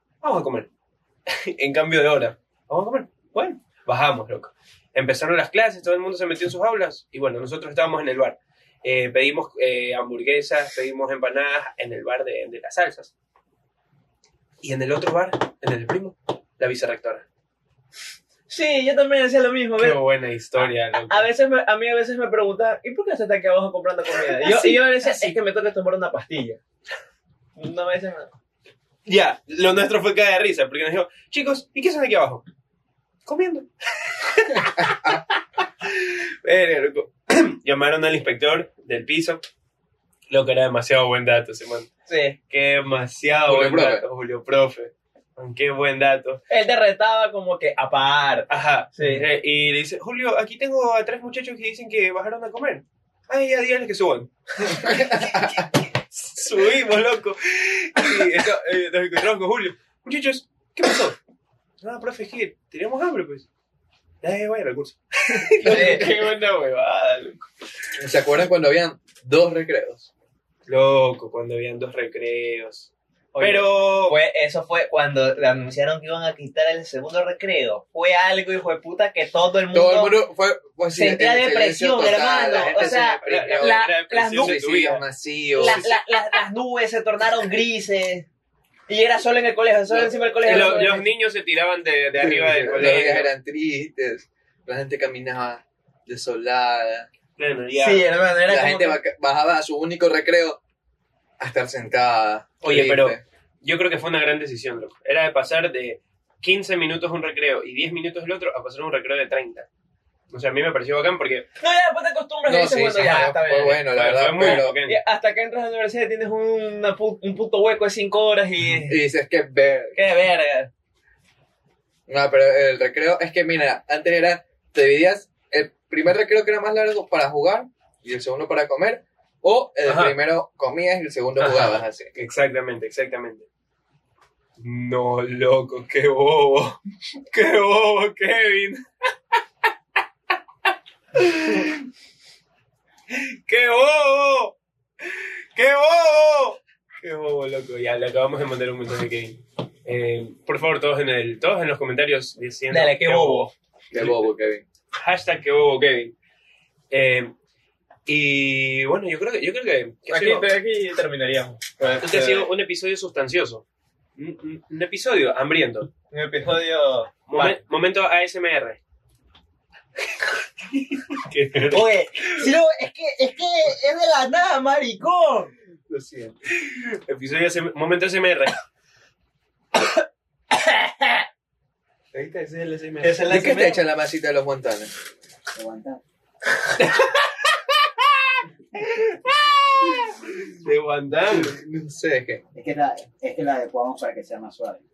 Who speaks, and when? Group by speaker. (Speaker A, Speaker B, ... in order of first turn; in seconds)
Speaker A: 0.2-0.7, 1.3-13.1, 14.6-17.2, 19.8-21.3, 24.3-25.3, 29.1-32.4, 33.2-39.4, 40.3-41.9, 42.5-46.4, 48.5-61.2, 61.8-63.5, 64.2-67.4, 70.7-74.2, 82.4-85.0, 85.6-86.0, 90.4-93.3, 97.4-98.1, 102.6-109.7, 110.3-111.5, 113.9-115.0, 129.8-130.1, 131.4-133.4, 134.6-138.8, 141.1-141.8, 143.1-154.3, 155.0-156.1, 156.9-157.3, 158.1-160.5, 162.0-163.6, 164.2-165.9, 167.3-168.8, 170.7-172.5, 176.5-178.6, 182.1-183.3, 186.8-187.3, 188.8-191.5
Speaker B: 18.5-20.0, 20.6-26.6, 27.6-28.3, 42.1-42.4, 46.5-49.2, 65.5-66.1, 73.3-80.2, 80.9-84.6, 85.5-88.2, 88.9-91.0, 97.7-99.0, 111.6-113.8, 114.4-119.0, 119.9-120.7, 152.7-153.5, 160.1-162.5, 166.1-167.6, 171.7-173.1, 173.7-175.4, 180.9-181.1, 183.0-183.8
Speaker C: 34.6-35.2, 43.5-44.0, 54.9-55.5, 65.6-66.0, 68.0-70.1, 79.7-85.8, 92.2-97.1, 98.5-100.6, 101.4-103.2, 112.5-114.8, 118.8-120.0, 122.1-132.1, 153.9-154.6, 175.9-176.4, 183.3-184.9, 191.3-192.4
Speaker D: 171.8-175.4, 185.5-186.0, 192.5-194.8